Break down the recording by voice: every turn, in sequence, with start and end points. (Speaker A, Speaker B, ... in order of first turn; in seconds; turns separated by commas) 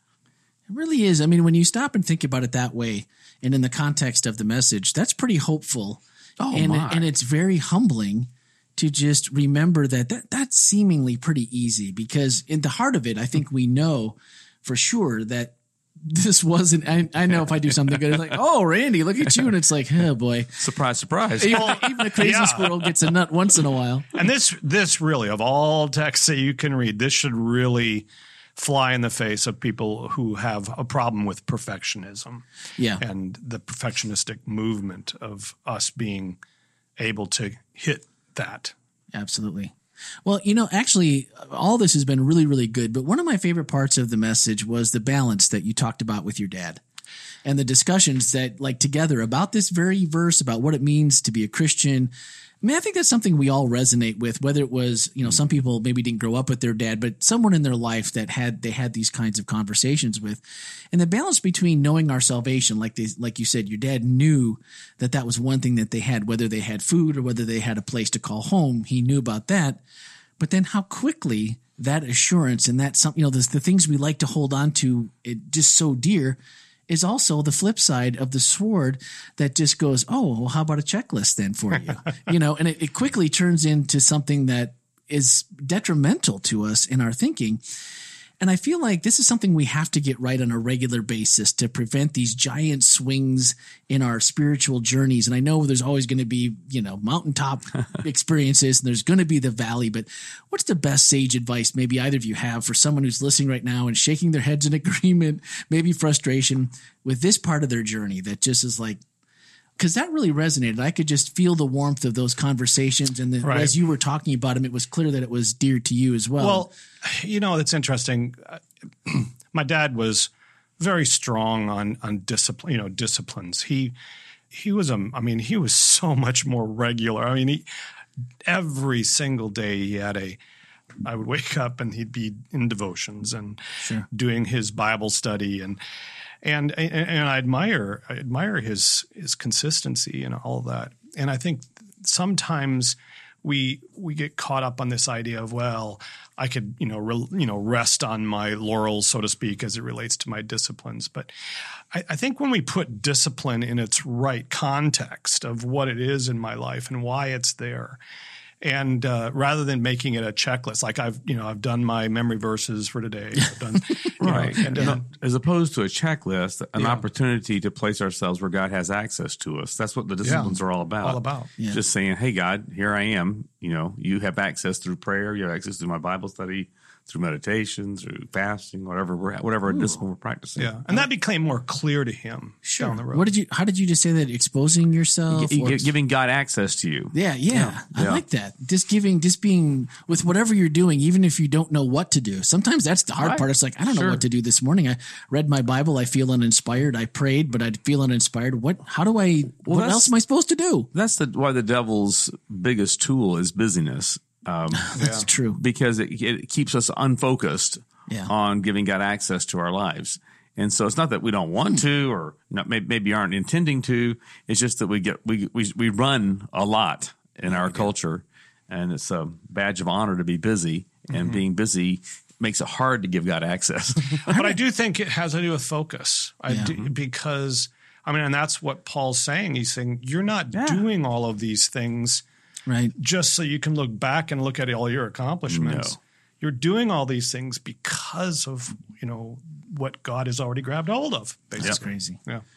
Speaker A: 0.7-20.6, Speaker B: 6.4-7.1, Speaker B: 20.6-21.8, Speaker A: 21.4-24.1, Speaker C: 21.5-22.9, Speaker C: 24.1-32.5, Speaker C: 33.0-36.4, Speaker C: 37.0-38.7, Speaker A: 39.1-39.7, Speaker A: 40.2-46.8, Speaker A: 47.5-52.1, Speaker A: 52.6-69.8, Speaker A: 70.4-87.6, Speaker A: 88.4-109.0, Speaker A: 109.8-116.7, Speaker C: 113.4-113.7, Speaker C: 116.4-124.0, Speaker C: 124.5-127.7, Speaker C: 128.5-130.4, Speaker C: 131.1-135.8, Speaker A: 133.8-134.1, Speaker C: 136.4-151.3, Speaker C: 151.9-158.0, Speaker C: 158.6-165.1, Speaker B: 164.2-181.0, Speaker A: 164.2-165.0, Speaker C: 166.8-167.0, Speaker C: 170.2-171.5, Speaker A: 179.7-180.0, Speaker C: 180.6-183.3, Speaker A: 182.6-185.9, Speaker B: 185.3-188.2, Speaker A: 187.1-200.9, Speaker B: 193.2-194.2, Speaker B: 199.6-200.1, Speaker B: 200.9-205.0, Speaker A: 204.9-205.6, Speaker C: 205.0-205.3, Speaker B: 205.6-224.2, Speaker A: 217.5-217.9, Speaker C: 221.1-221.4, Speaker C: 224.2-232.2, Speaker A: 224.3-224.6, Speaker B: 230.5-230.8, Speaker A: 232.7-232.9, Speaker C: 233.0-242.4, Speaker B: 235.5-236.0, Speaker A: 241.6-242.2